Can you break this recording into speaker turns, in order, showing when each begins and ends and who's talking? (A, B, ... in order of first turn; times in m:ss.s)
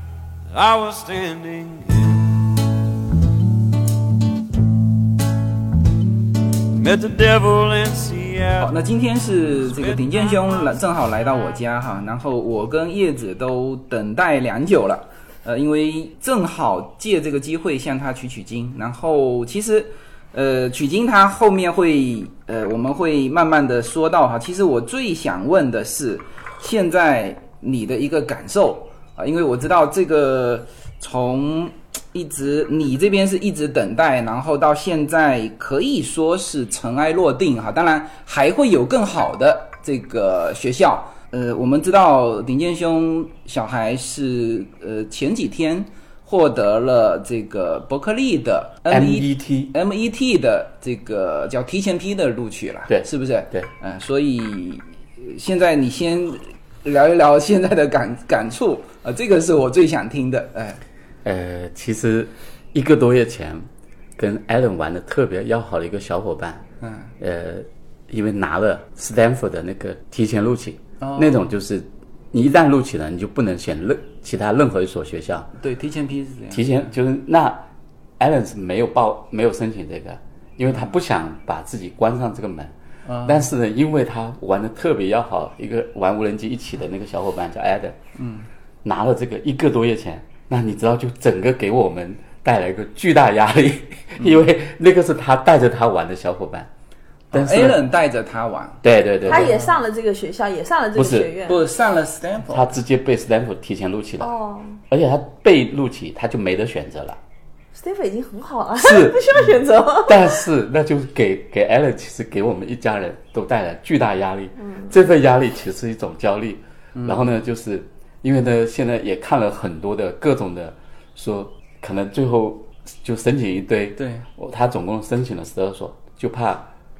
0:00.5-0:02.4 A
0:06.7-0:08.7 A
0:08.6-1:00.8 B
0:09.7-0:10.3 A
0:48.9-0:49.7 C
0:52.9-0:53.7 C
1:01.2-1:06.6 C
1:06.8-1:07.1 B
1:07.2-1:15.5 C
1:11.0-1:11.5 B
1:15.6-1:16.9 B
1:16.5-1:17.6 C
1:18.2-1:22.7 C
1:20.7-1:20.9 B
1:23.0-1:23.5 B
1:23.2-1:28.0 C
1:28.2-1:28.5 B
1:28.8-1:36.7 C
1:34.2-1:34.4 B
1:37.3-1:39.8 B
1:37.3-1:37.8 C
1:38.8-1:39.5 C
1:39.3-1:41.6 D
1:40.9-1:41.3 C
1:41.4-1:42.7 B
1:42.5-1:44.3 C
1:44.2-1:44.8 D
1:44.9-1:47.2 C
1:47.7-1:50.4 D
1:48.8-1:49.4 C
1:50.0-2:06.7 C
1:57.0-1:57.3 B
2:04.0-2:04.2 B